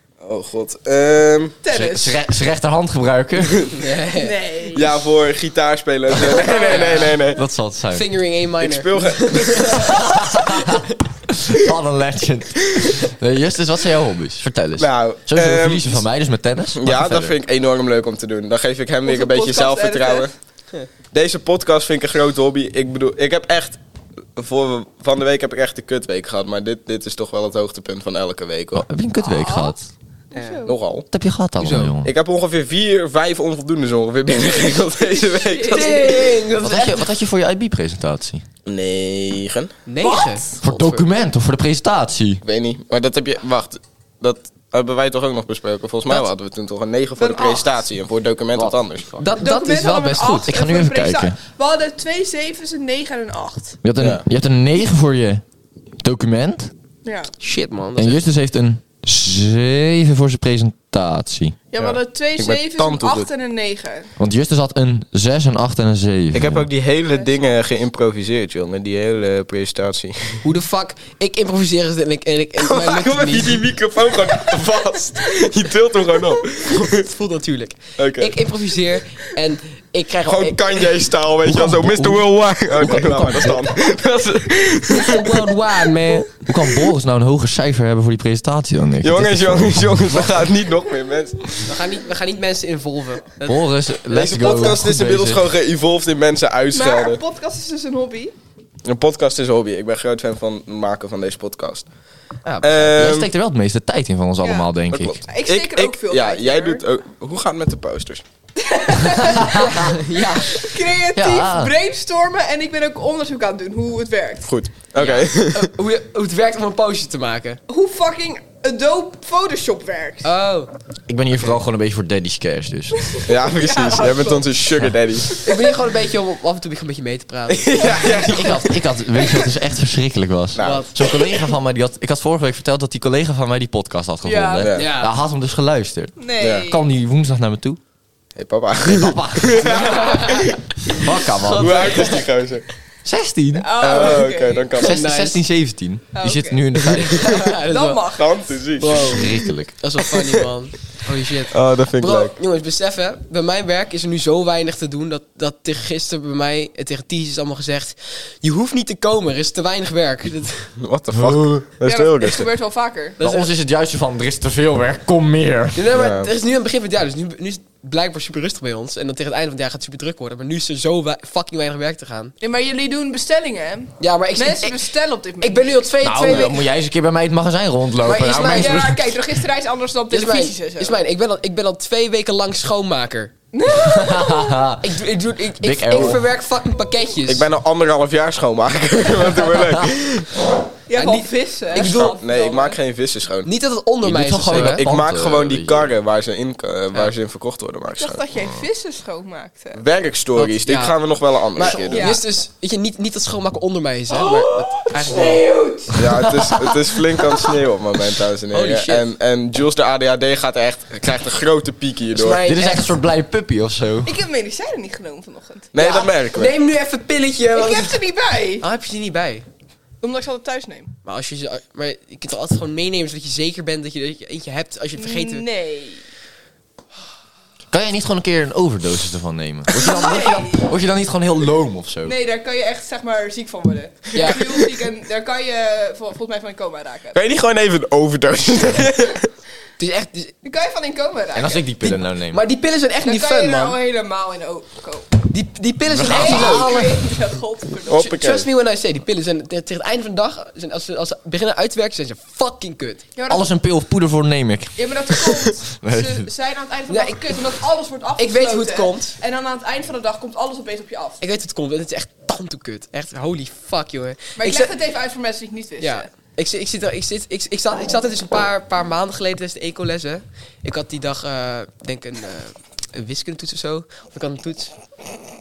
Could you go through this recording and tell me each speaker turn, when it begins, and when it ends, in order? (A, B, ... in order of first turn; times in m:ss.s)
0:00.2-0:01.6 A
0:01.6-0:02.2 B
0:01.7-0:03.7 C
0:03.8-0:04.3 D
0:04.1-0:04.9 B
0:04.7-0:07.4 A
0:06.4-0:07.1 B
0:06.6-0:07.2 D
0:07.3-0:08.1 C
0:07.9-0:10.0 D
0:08.6-0:09.8 A
0:09.8-0:17.4 C
0:14.8-0:16.0 A
0:16.8-0:20.3 A
0:19.0-0:20.3 B
0:21.1-0:23.8 A
0:24.4-0:28.9 A
0:28.7-0:29.8 C
0:29.2-0:30.8 B
0:30.3-0:30.7 D
0:30.6-0:31.1 A
0:31.1-0:32.1 C
0:31.6-0:31.9 D
0:32.0-0:36.3 A
0:35.1-0:36.3 B
0:35.7-0:37.1 D
0:36.6-0:38.4 C
0:38.6-0:39.7 A
0:39.9-0:41.1 D
0:40.0-0:40.5 B
0:40.6-0:42.4 C
0:42.4-0:49.1 A
0:47.2-0:47.7 B
0:48.5-0:49.3 C
0:49.2-0:50.5 D
0:49.4-0:53.8 B
0:50.4-0:51.4 C
0:53.8-0:55.4 C
0:54.0-0:54.2 A
0:56.0-0:56.7 C
0:57.0-0:57.3 B
0:57.4-0:58.2 D
0:58.0-1:01.6 C
1:01.7-1:04.1 B
1:01.8-1:03.3 A
1:04.2-1:06.7 C
1:06.3-1:10.4 A
1:10.4-1:13.6 D
1:12.6-1:17.0 A
1:16.7-1:20.9 D
1:18.0-1:18.5 A
1:20.2-1:25.4 A
1:21.4-1:23.7 C
1:24.9-1:26.3 D
1:26.4-1:30.4 C
1:29.0-1:31.7 A
1:31.6-1:33.6 D
1:33.4-1:35.5 C
1:34.1-1:37.2 A
1:36.7-1:38.4 B
1:38.8-1:41.9 A
1:42.4-1:42.7 D
1:42.6-1:43.3 A
1:42.8-1:45.2 C
1:44.4-1:44.7 B
1:44.9-1:48.2 A
1:45.2-1:46.8 B
1:48.6-1:54.5 B
1:49.2-1:49.7 C
1:49.6-1:50.6 D
1:51.1-1:51.7 C
1:54.5-1:55.7 A
1:55.0-1:57.6 D
1:57.7-2:00.3 B
2:00.2-2:00.7 D
2:01.1-2:03.1 C
2:03.1-2:04.5 B
2:03.3-2:05.4 A
2:05.4-2:08.1 D
2:07.6-2:08.6 A
2:07.8-2:08.5 B
2:08.1-2:17.8 C
2:09.2-2:09.5 B
2:10.6-2:11.0 A
2:10.6-2:11.1 D
2:14.2-2:14.7 B
2:14.6-2:14.9 A
2:14.7-2:15.1 D
2:16.2-2:16.8 B
2:16.4-2:16.7 A
2:18.4-2:21.0 A
2:18.9-2:22.0 C
2:19.8-2:20.4 D
2:21.4-2:22.2 D
2:21.5-2:22.7 A
2:23.0-2:24.2 C
2:23.6-2:24.8 B
2:23.8-2:25.0 A
2:24.8-2:27.4 C
2:24.9-2:25.4 D
2:26.1-2:26.8 B
2:26.9-2:28.0 D
2:27.6-2:28.6 B
2:28.1-2:29.3 A
2:28.8-2:40.7 D
2:28.9-2:29.7 C
2:31.5-2:32.3 A
2:40.8-2:42.5 A
2:41.1-2:41.6 C
2:41.8-2:43.2 B
2:43.2-2:43.5 D
2:43.2-2:45.8 C
2:45.7-2:52.3 D
2:45.9-2:46.3 A
2:52.4-2:56.4 B
2:54.0-2:54.9 D
2:55.4-2:56.6 D
2:56.0-2:59.2 C
2:58.0-2:58.9 D
2:58.5-3:01.0 B
3:00.1-3:03.3 D
3:03.5-3:04.6 B
3:03.7-3:05.0 C
3:04.8-3:07.4 D
3:05.6-3:06.2 C
3:07.3-3:10.4 A
3:10.9-3:12.8 B
3:10.9-3:12.2 D
3:11.7-3:13.5 A
3:13.4-3:14.8 D
3:14.0-3:15.9 C
3:14.5-3:18.2 A
3:18.0-3:19.8 B
3:19.7-3:22.2 A
3:20.4-3:21.0 D
3:21.6-3:25.4 D
3:21.6-3:22.2 B
3:25.0-3:25.9 B
3:25.9-3:26.6 C
3:25.9-3:32.4 A
3:28.5-3:29.1 D
3:32.1-3:32.9 D
3:32.4-3:34.1 C
3:34.0-3:35.7 B
3:35.7-3:36.5 A
3:35.8-3:38.0 D
3:37.5-3:38.6 B
3:38.6-3:39.4 D
3:40.0-3:40.9 B
3:41.0-3:45.4 D
3:44.9-3:46.0 B
3:47.7-3:52.2 C
3:49.8-3:50.6 B
3:52.0-3:57.2 B
3:54.1-3:54.4 D
3:54.2-3:54.5 A
3:57.1-3:59.3 A
3:59.8-4:00.3 D
4:00.4-4:01.6 B
4:01.3-4:02.4 C
4:01.8-4:03.8 D
4:03.0-4:05.1 B
4:05.3-4:06.8 D
4:05.9-4:07.0 C
4:06.1-4:08.1 B
4:07.9-4:08.5 A
4:08.0-4:13.0 D
4:13.2-4:13.5 B
4:13.3-4:15.0 C
4:14.8-4:21.2 B
4:15.8-4:16.3 C
4:16.9-4:17.4 D
4:18.2-4:19.2 D
4:21.2-4:24.7 D
4:24.4-4:26.1 B
4:25.8-4:34.7 D